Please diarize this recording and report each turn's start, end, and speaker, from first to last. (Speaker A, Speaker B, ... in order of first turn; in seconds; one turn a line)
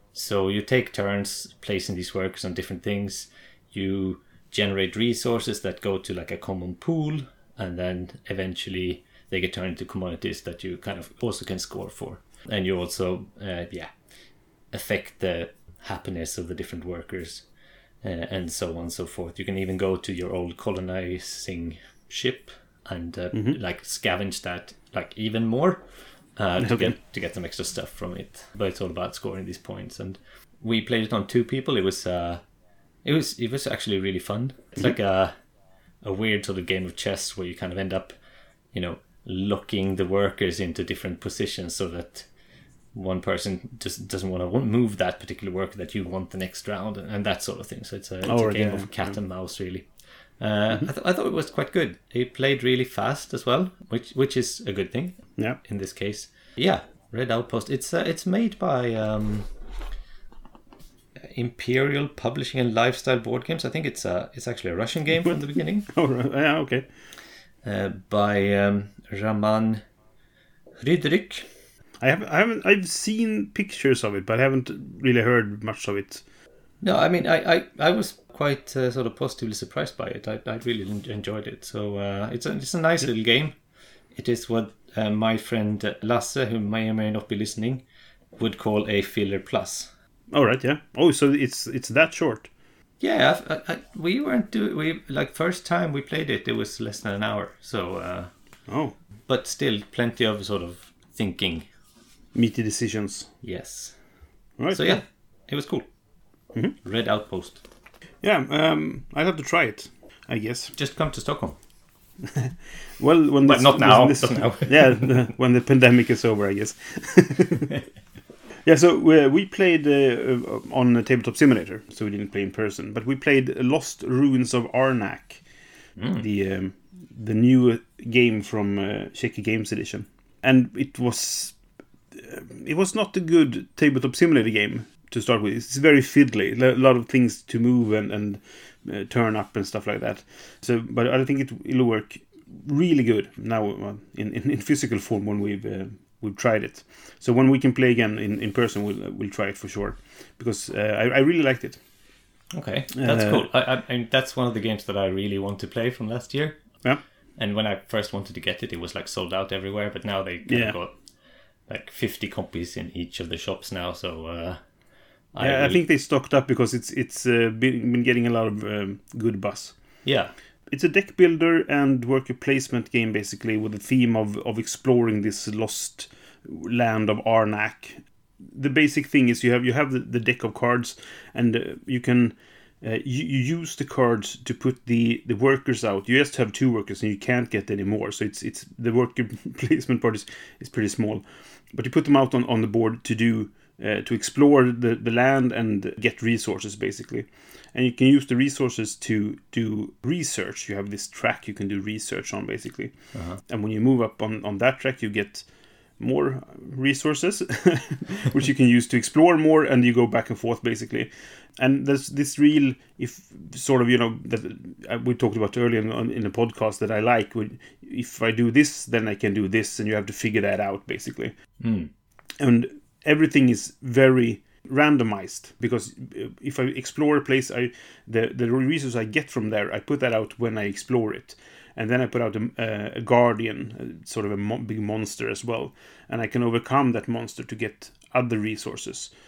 Speaker A: 0.1-13.9
Speaker A: 14.7-17.4
Speaker A: 18.0-25.8
Speaker B: 23.3-23.6
Speaker A: 26.4-32.4
Speaker B: 26.6-26.9
Speaker A: 33.0-35.3
Speaker A: 36.0-38.1
Speaker A: 38.7-42.2
Speaker A: 42.9-49.9
Speaker B: 48.2-49.1
Speaker A: 50.4-59.5
Speaker A: 61.3-65.9
Speaker B: 65.9-66.9
Speaker A: 67.6-69.8
Speaker A: 70.8-71.5
Speaker B: 72.0-76.2
Speaker A: 76.8-83.5
Speaker A: 84.1-87.8
Speaker A: 88.4-89.9
Speaker B: 90.3-92.5
Speaker A: 93.0-98.3
Speaker B: 98.7-98.9
Speaker A: 99.3-101.7
Speaker B: 102.3-103.3
Speaker A: 103.4-104.0
Speaker B: 104.6-105.0
Speaker A: 104.7-105.8
Speaker A: 106.8-107.6
Speaker B: 108.2-110.7
Speaker A: 110.7-111.6
Speaker B: 112.3-117.7
Speaker A: 113.4-115.2
Speaker B: 118.6-125.4
Speaker A: 126.0-126.2
Speaker B: 126.2-131.6
Speaker B: 132.1-151.8
Speaker A: 152.5-156.8
Speaker B: 152.9-153.5
Speaker A: 157.4-160.9
Speaker B: 160.5-160.7
Speaker A: 161.7-164.6
Speaker A: 165.3-165.8
Speaker B: 165.4-169.8
Speaker A: 170.0-170.3
Speaker B: 170.7-205.4
Speaker A: 203.1-203.4
Speaker B: 206.0-221.3
Speaker A: 221.6-221.9
Speaker B: 222.4-239.1